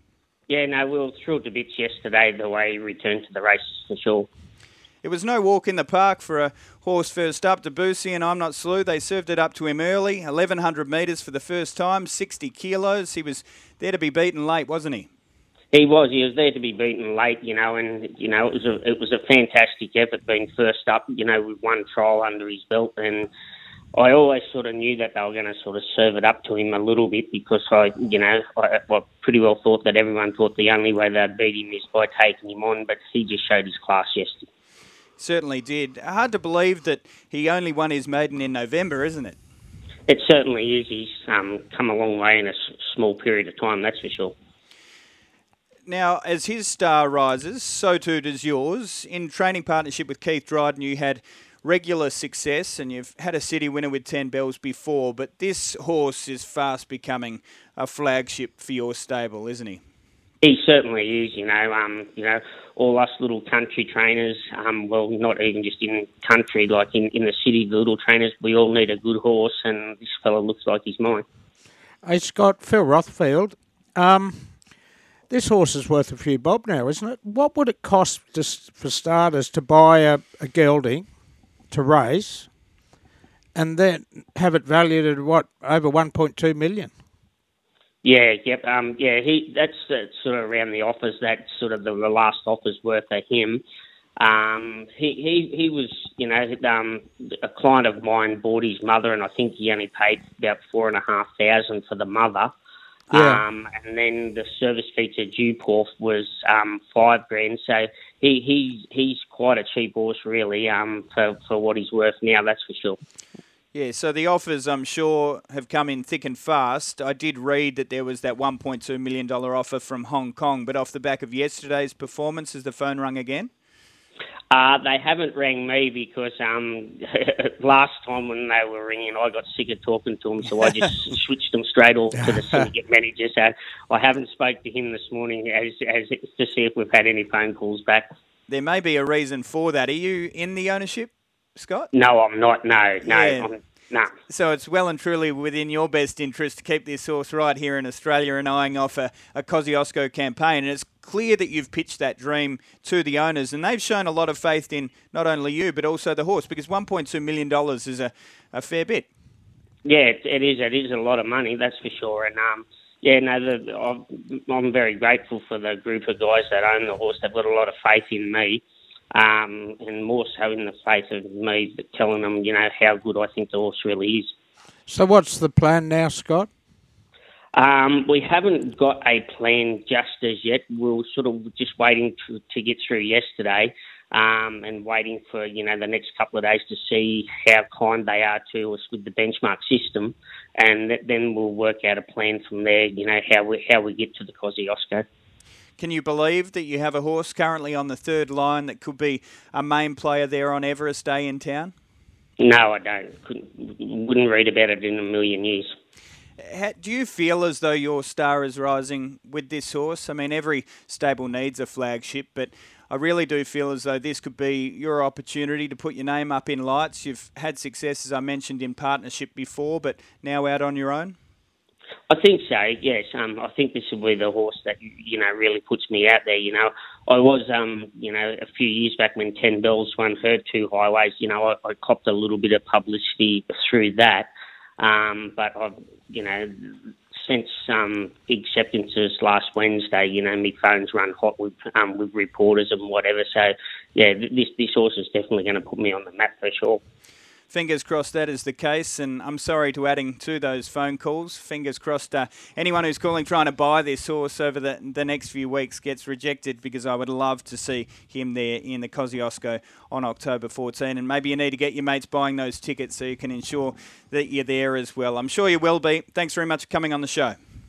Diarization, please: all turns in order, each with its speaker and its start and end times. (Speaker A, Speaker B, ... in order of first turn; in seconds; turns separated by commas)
Speaker A: 0.5-4.3, Speaker B: 5.0-15.1, Speaker A: 15.7-23.3, Speaker A: 23.9-34.5, Speaker B: 35.2-39.4, Speaker A: 40.1-44.4, Speaker B: 45.9-59.8, Speaker A: 60.4-71.2, Speaker C: 72.0-74.6, Speaker C: 75.3-81.1, Speaker C: 81.7-82.5, Speaker C: 83.5-86.9, Speaker A: 88.0-93.6, Speaker A: 94.2-102.5, Speaker C: 103.1-103.4, Speaker A: 103.1-113.0, Speaker B: 113.7-123.5, Speaker A: 124.5-138.1, Speaker B: 138.5-141.9, Speaker A: 141.9-144.1, Speaker B: 143.1-143.5, Speaker B: 144.3-159.1, Speaker A: 159.8-174.3, Speaker C: 174.9-176.5, Speaker A: 177.6-195.1, Speaker B: 195.8-201.7, Speaker A: 202.4-205.8, Speaker B: 206.4-221.2, Speaker A: 222.1-246.8, Speaker B: 247.5-267.4